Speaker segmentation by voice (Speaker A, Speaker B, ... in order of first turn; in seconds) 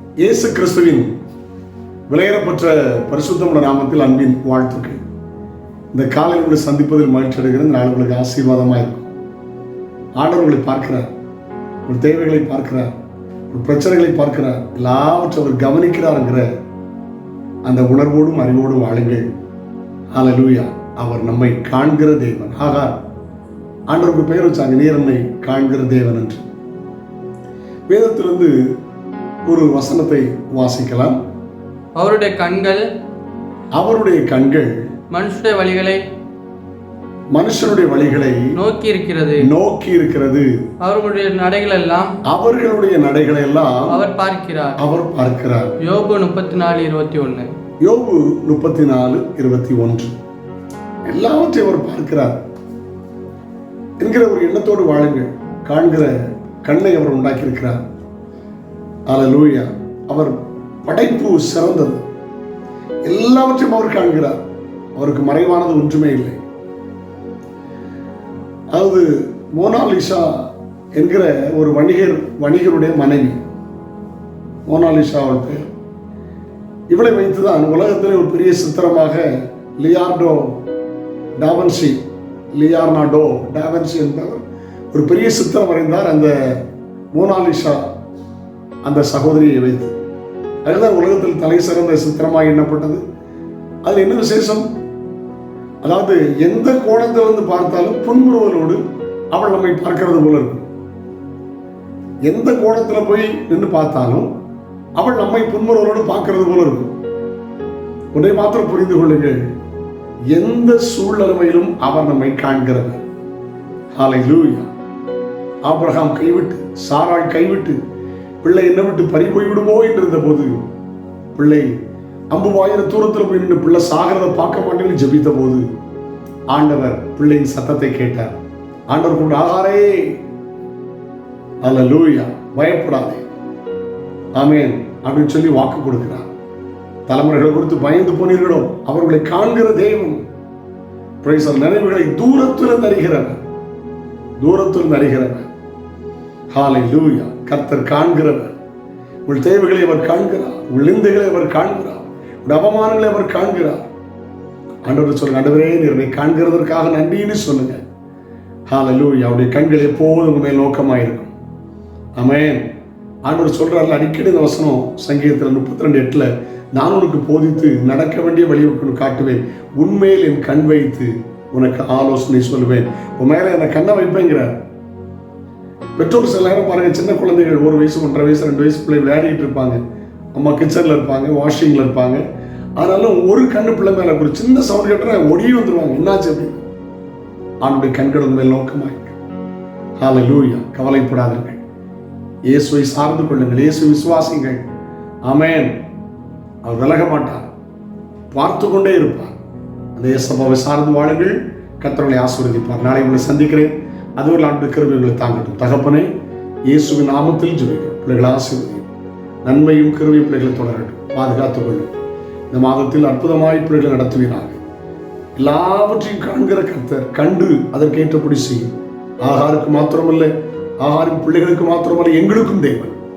Speaker A: 0.2-1.1, 2.1-5.0, 5.9-9.1, 10.2-11.1, 11.8-12.9, 13.5-16.5, 17.6-19.3, 20.1-23.0, 23.9-26.4, 27.9-28.5, 29.4-31.2, 33.8-34.7, 37.3-38.5, 39.4-40.5, 42.3-43.9, 44.8-45.7, 47.8-50.1, 51.0-52.4, 54.0-57.8, 59.1-62.0, 63.0-64.4, 65.0-66.4, 68.7-70.4, 71.0-73.4, 74.7-75.6, 76.9-79.3, 79.8-80.6, 81.4-82.0, 82.5-84.4, 84.9-86.6, 87.1-87.8, 88.8-89.9, 90.6-93.0, 93.8-94.7, 95.8-98.8, 99.3-100.7, 102.3-104.3, 105.0-106.9, 108.1-109.4, 110.3-113.0, 113.9-114.7, 115.6-117.8, 118.4-120.6, 121.3-121.7, 122.3-125.6, 126.5-128.3, 128.9-130.2, 131.6-133.2, 134.3-136.3, 137.1-140.2, 141.2-143.4, 144.4-145.5, 146.5-148.5, 149.2-153.9, 154.8-157.8, 158.7-161.3, 162.1-162.7, 163.2-174.5, 176.0-179.8, 180.3-182.2, 182.8-186.6, 187.6-189.2, 190.0-191.6, 192.5-194.6, 195.2-195.8, 196.6-197.5, 198.3-199.3, 199.9-206.1, 206.7-208.8, 209.4-211.9, 212.5-214.6, 215.3-218.7, 219.2-223.0
Speaker B: 32.0-32.8, 35.1-36.0, 38.5-39.5, 40.8-42.1, 43.9-44.8, 45.8-47.5